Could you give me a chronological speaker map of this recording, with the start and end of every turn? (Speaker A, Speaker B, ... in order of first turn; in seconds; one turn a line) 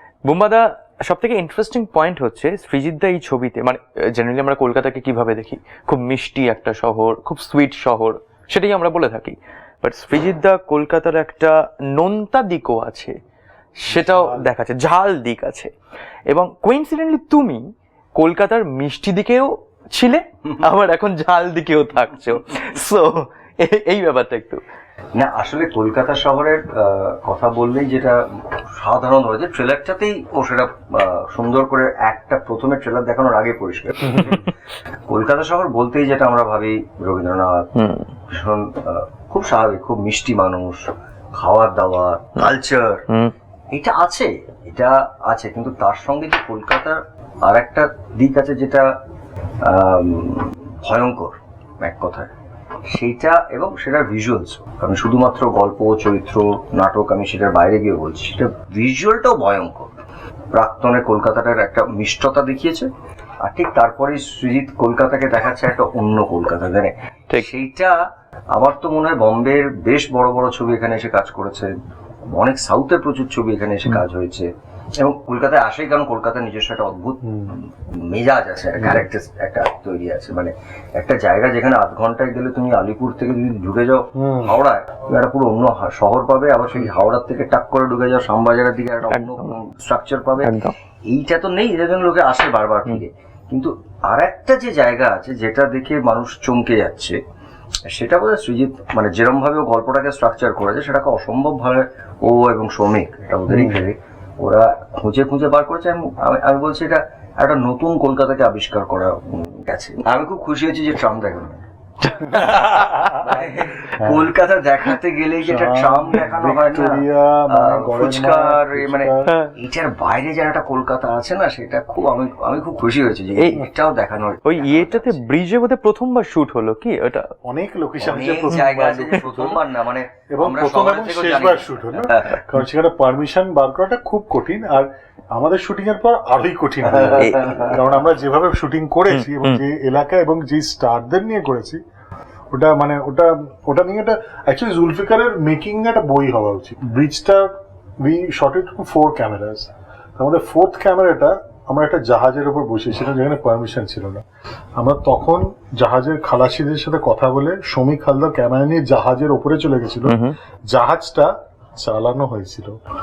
Speaker A: 0.2-13.1
Speaker A: 13.8-15.7
Speaker B: 13.9-14.5
Speaker A: 16.3-17.6
Speaker A: 18.2-24.6
Speaker C: 25.1-34.5
Speaker C: 35.1-37.7
Speaker A: 37.7-38.1
Speaker C: 38.3-43.1
Speaker C: 43.7-48.9
Speaker C: 49.6-52.3
Speaker C: 52.9-59.9
Speaker C: 60.5-62.9
Speaker C: 63.4-68.0
Speaker C: 68.5-71.7
Speaker C: 72.3-74.5
Speaker C: 75.0-97.2
Speaker B: 77.2-77.5
Speaker B: 78.8-79.0
Speaker B: 84.2-84.5
Speaker A: 89.1-89.5
Speaker A: 90.4-90.7
Speaker C: 97.9-111.6
Speaker B: 103.5-103.8
Speaker A: 112.1-113.2
Speaker B: 112.4-113.2
Speaker C: 113.1-125.2
Speaker B: 114.0-114.2
Speaker B: 115.4-119.3
Speaker A: 119.2-119.5
Speaker A: 123.4-123.6
Speaker A: 124.4-127.3
Speaker B: 127.4-129.6
Speaker C: 128.0-132.4
Speaker B: 130.3-141.8
Speaker C: 136.9-137.8
Speaker A: 137.0-137.8
Speaker A: 139.1-139.6
Speaker B: 142.5-154.2
Speaker B: 154.8-162.8
Speaker A: 160.1-160.3